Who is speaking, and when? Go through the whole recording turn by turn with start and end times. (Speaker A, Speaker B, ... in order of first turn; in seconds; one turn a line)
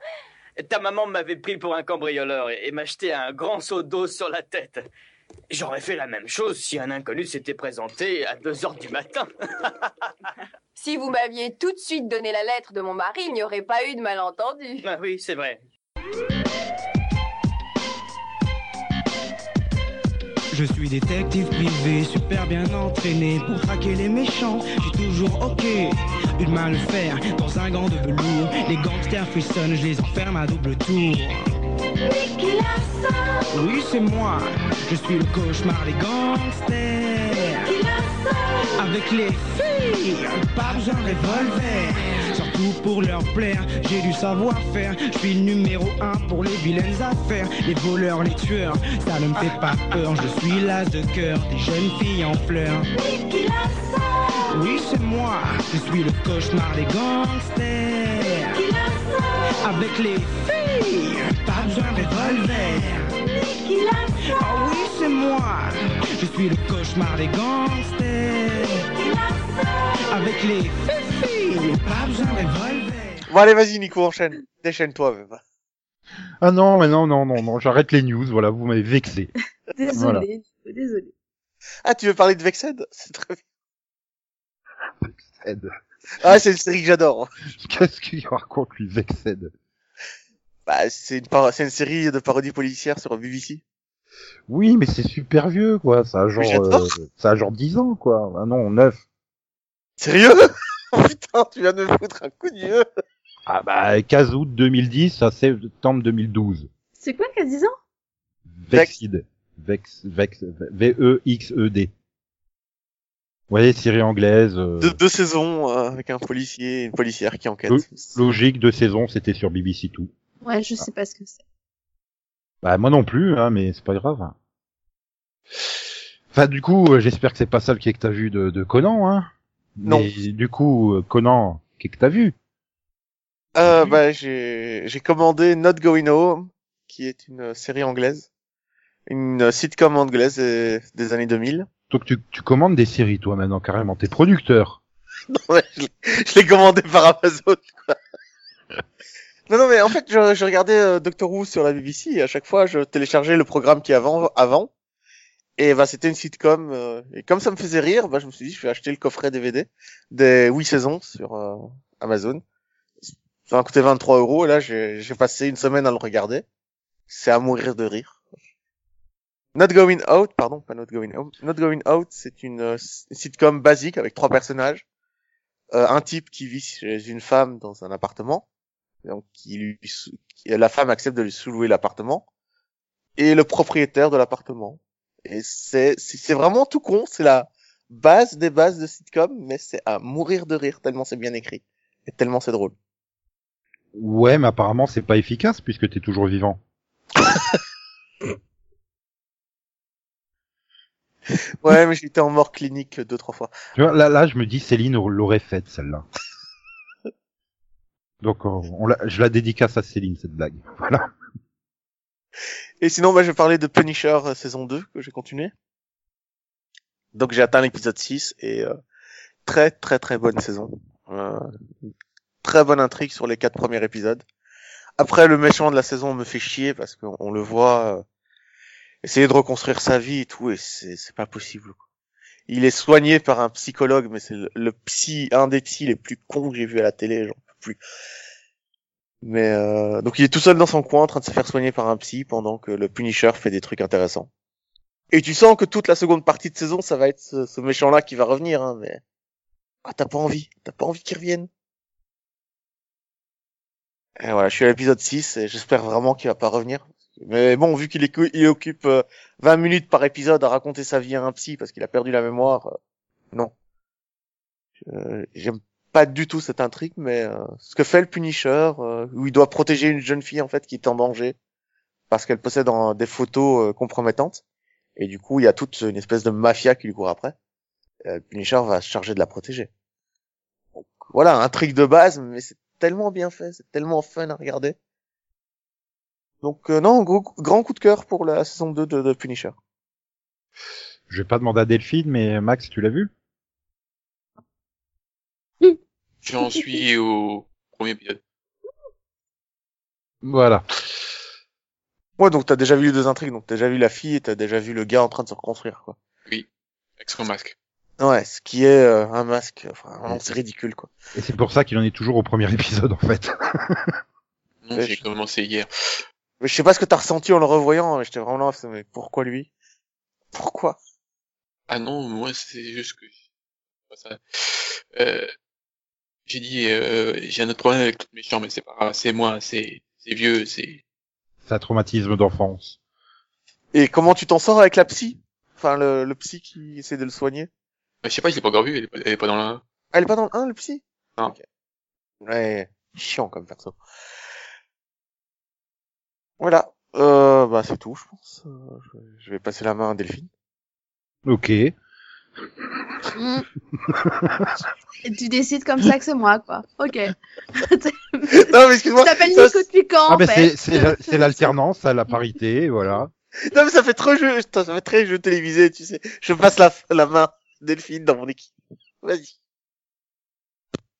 Speaker A: 0.6-4.8
Speaker A: 5.5-9.7
Speaker B: 10.8-14.8
Speaker A: 14.8-15.6
Speaker C: 20.5-31.5
Speaker C: 33.5-37.8
Speaker C: 38.8-52.9
Speaker C: 54.5-58.7
Speaker C: 59.6-63.2
Speaker C: 64.2-68.9
Speaker C: 70.1-73.2
Speaker D: 73.3-75.4
Speaker E: 76.4-79.3
Speaker F: 79.8-81.1
Speaker E: 79.9-80.3
Speaker D: 81.8-83.4
Speaker E: 85.0-85.7
Speaker D: 86.2-87.3
Speaker E: 87.5-89.5
Speaker D: 90.7-93.6
Speaker E: 94.5-99.0
Speaker D: 96.4-96.9
Speaker D: 100.0-102.8
Speaker E: 103.5-106.7
Speaker F: 107.0-107.7
Speaker E: 108.6-111.9
Speaker E: 113.5-115.0
Speaker D: 114.8-118.2
Speaker E: 117.7-120.1
Speaker F: 120.4-121.4
Speaker E: 122.6-124.3
Speaker E: 126.3-132.3
Speaker D: 133.6-138.3
Speaker D: 139.1-141.7
Speaker E: 141.9-144.8
Speaker D: 145.3-148.0
Speaker D: 149.5-154.7
Speaker D: 155.6-162.4
Speaker D: 163.5-166.4
Speaker D: 167.1-168.2
Speaker D: 169.6-174.8
Speaker D: 175.7-178.4
Speaker D: 179.0-182.2
Speaker D: 183.2-192.7
Speaker E: 193.9-196.6
Speaker D: 201.6-203.5
Speaker E: 203.8-206.0
Speaker E: 208.2-211.1
Speaker D: 212.8-215.5
Speaker D: 217.1-218.7
Speaker D: 219.4-221.5
Speaker D: 222.4-224.2
Speaker D: 225.0-228.0
Speaker D: 229.0-231.8
Speaker D: 232.5-237.8
Speaker D: 239.2-244.3
Speaker D: 245.1-249.0
Speaker D: 249.8-251.5
Speaker D: 254.2-262.8
Speaker D: 264.9-271.4
Speaker D: 272.1-274.4
Speaker D: 275.0-277.4
Speaker D: 278.1-279.7
Speaker D: 280.8-284.8
Speaker D: 286.4-289.6
Speaker E: 291.1-293.1
Speaker G: 296.2-298.2
Speaker E: 300.2-300.6
Speaker D: 302.2-306.0
Speaker G: 307.0-307.6
Speaker D: 308.0-310.9
Speaker E: 311.1-313.9
Speaker G: 314.6-315.7
Speaker D: 316.4-319.5
Speaker D: 320.3-320.8
Speaker G: 321.7-323.1
Speaker G: 323.9-325.3
Speaker G: 326.3-330.8
Speaker E: 331.4-332.8
Speaker D: 333.7-337.5
Speaker G: 338.0-339.6
Speaker D: 339.9-341.4
Speaker D: 342.2-343.8
Speaker D: 346.4-350.3
Speaker E: 351.2-351.7
Speaker F: 353.1-353.4
Speaker E: 353.8-354.6
Speaker F: 355.0-358.4
Speaker D: 358.3-359.6
Speaker F: 359.0-361.5
Speaker E: 360.1-363.1
Speaker D: 363.5-369.3